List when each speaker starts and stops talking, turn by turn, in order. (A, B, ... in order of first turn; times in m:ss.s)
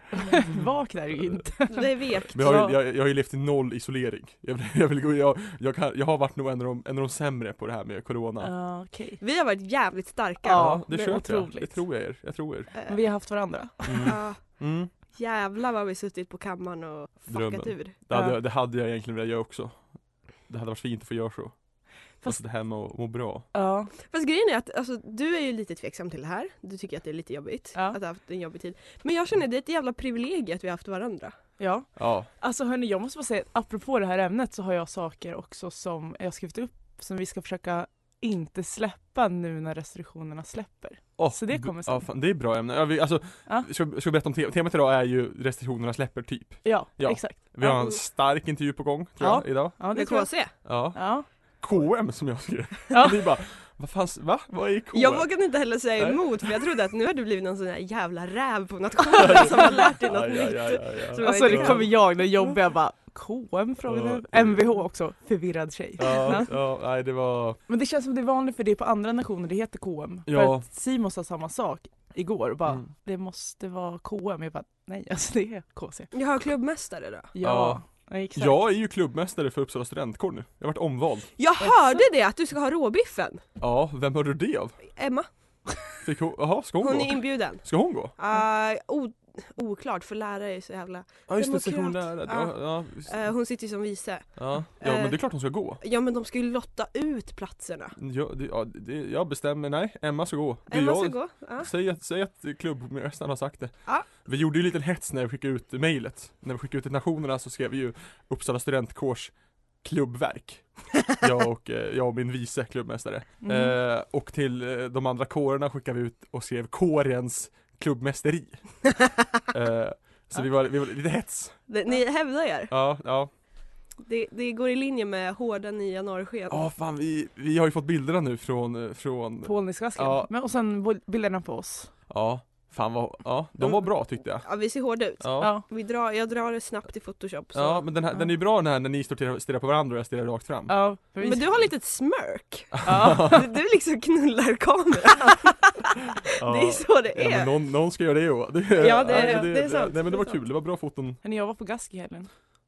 0:00.1-0:02.8 A
0:01.7-0:02.3 B
0:02.3-0:08.5 C
0:08.4-0:09.2 A
0:09.2-0:11.2 B
0:10.4-0:11.8 A
0:10.6-0:12.7 C
0:12.7-0:13.0 B
0:12.9-0:14.2 A
0:13.9-0:14.9 C
0:14.0-0:17.9 B
0:17.3-0:23.5 C
0:18.1-0:18.4 A
0:23.5-0:23.9 A
0:24.0-0:31.4 B
0:31.6-0:42.1 A
0:32.0-0:32.3 C
0:41.2-0:49.8 C
0:46.6-0:47.4 A
0:47.6-0:48.0 B
0:49.2-0:51.3 A
0:49.9-0:50.6 B
0:50.6-0:56.6 C
0:52.9-0:53.2 A
0:54.9-1:02.2 B
0:59.1-1:01.9 C
1:01.2-1:06.5 A
1:03.9-1:04.8 C
1:06.0-1:07.6 C
1:07.7-1:16.4 A
1:10.3-1:10.7 C
1:16.1-1:17.3 B
1:17.3-1:18.7 A
1:17.4-1:21.3 C
1:21.4-1:23.4 B
1:23.6-1:24.9 C
1:24.9-1:25.3 B
1:26.0-1:28.1 C
1:26.8-1:37.9 B
1:31.3-1:33.3 C
1:34.4-1:35.8 C
1:38.0-2:01.7 C
1:40.7-1:41.7 B
1:53.4-1:53.8 A
2:01.7-2:02.7 B
2:02.7-2:03.3 C
2:04.0-2:06.7 B
2:06.5-2:10.3 C
2:09.4-2:11.9 A
2:12.1-2:15.5 C
2:14.4-2:17.9 B
2:15.4-2:15.6 A
2:17.5-2:20.8 C
2:20.7-2:21.6 A
2:21.2-2:27.6 B
2:22.8-2:23.4 A
2:22.9-2:23.4 C
2:26.4-2:31.2 C
2:28.8-2:30.4 B
2:29.1-2:29.5 A
2:31.2-2:32.3 A